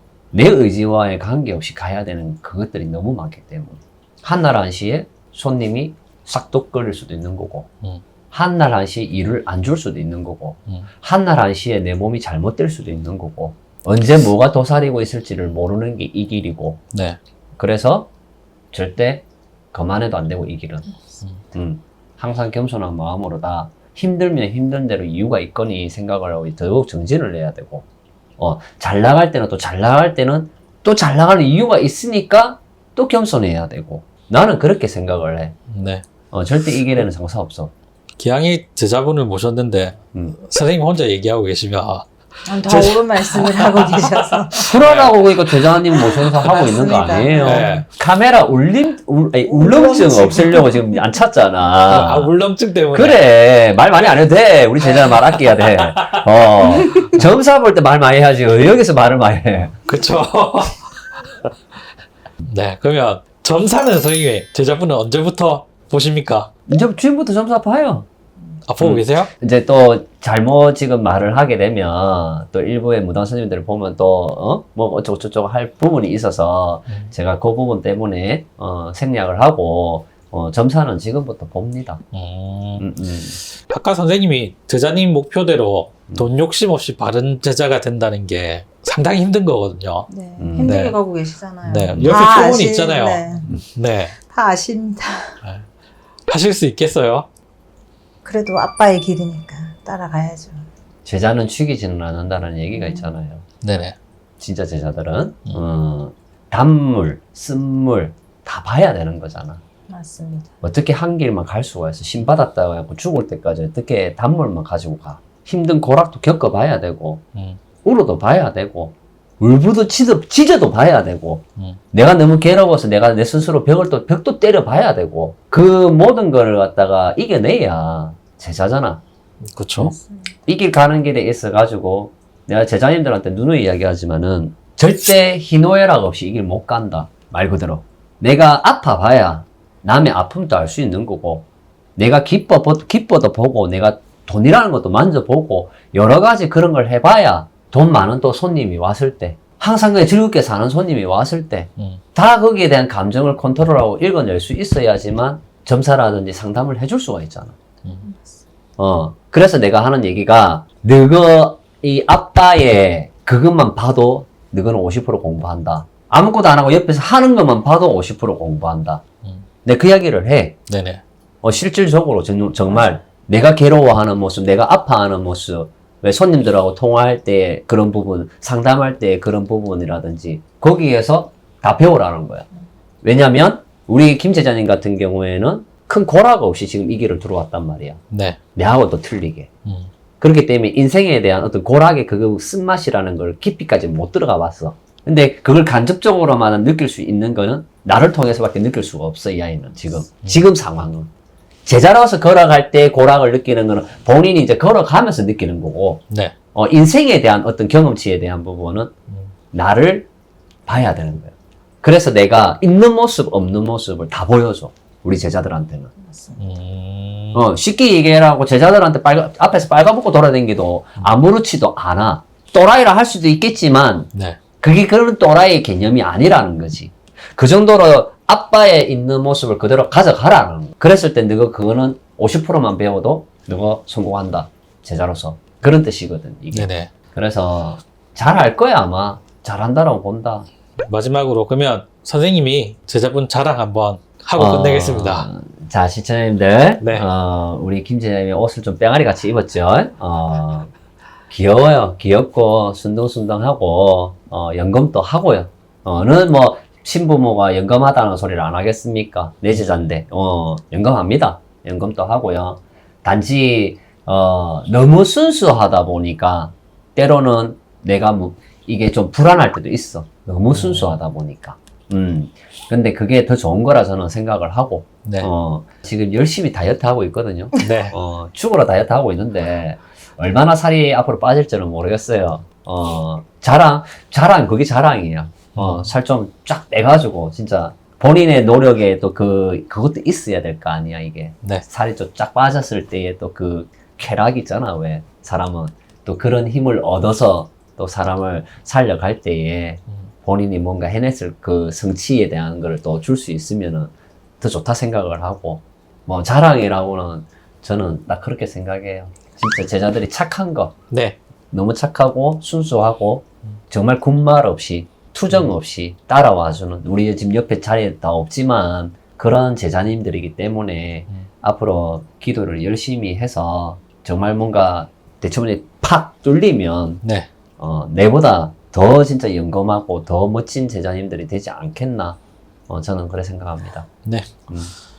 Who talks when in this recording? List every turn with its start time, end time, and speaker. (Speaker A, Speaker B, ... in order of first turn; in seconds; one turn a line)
Speaker A: 0.3-7.7
Speaker A: 8.3-16.8
Speaker B: 16.9-17.2
Speaker A: 17.6-18.1
Speaker A: 18.7-21.0
Speaker A: 21.5-27.9
Speaker A: 28.4-35.6
Speaker B: 35.7-36.0
Speaker A: 36.3-37.7
Speaker B: 38.2-45.5
Speaker C: 42.5-44.7
Speaker A: 44.6-52.3
Speaker C: 45.9-47.8
Speaker B: 46.2-46.6
Speaker B: 47.4-47.9
Speaker C: 49.5-51.0
Speaker B: 51.9-53.2
Speaker A: 52.9-59.8
Speaker B: 55.1-56.2
Speaker B: 59.9-61.5
Speaker B: 62.4-66.5
Speaker A: 66.7-68.1
Speaker B: 68.7-69.3
Speaker A: 68.8-82.0
Speaker B: 82.1-82.8
Speaker A: 82.8-83.4
Speaker B: 83.5-91.0
Speaker C: 90.1-93.5
Speaker A: 90.4-90.7
Speaker B: 91.7-94.2
Speaker A: 91.9-92.2
Speaker C: 94.2-95.4
Speaker B: 96.3-97.3
Speaker C: 98.2-100.7
Speaker A: 101.0-103.5
Speaker C: 102.8-103.1
Speaker B: 103.6-104.0
Speaker A: 104.4-109.6
Speaker C: 109.9-110.5
Speaker A: 110.6-117.2
Speaker B: 117.3-117.6
Speaker A: 117.8-129.0
Speaker B: 129.5-130.0
Speaker C: 130.0-130.3
Speaker A: 130.5-157.6
Speaker C: 158.1-158.4
Speaker A: 158.8-169.0
Speaker A: 169.7-170.6
Speaker B: 170.7-171.0
Speaker A: 171.4-182.5
Speaker A: 183.0-188.0
Speaker B: 188.1-188.4
Speaker A: 188.6-189.5
Speaker B: 189.7-189.9
Speaker A: 190.2-201.1
Speaker A: 201.7-206.0
Speaker B: 206.1-206.3
Speaker A: 206.5-208.9
Speaker A: 209.5-210.1
Speaker A: 210.7-215.9
Speaker C: 216.0-216.4
Speaker B: 216.4-217.4
Speaker A: 217.3-240.5
Speaker B: 224.1-224.4
Speaker B: 236.5-236.9
Speaker B: 240.9-245.3
Speaker A: 244.4-250.7
Speaker B: 246.8-247.1
Speaker A: 251.3-310.8
Speaker B: 270.5-270.9
Speaker B: 275.1-275.3
Speaker B: 277.6-277.9
Speaker B: 285.6-285.9
Speaker B: 310.9-311.2
Speaker A: 311.5-327.0
Speaker B: 327.0-327.3
Speaker A: 327.6-333.9
Speaker B: 334.1-334.5
Speaker A: 334.5-334.7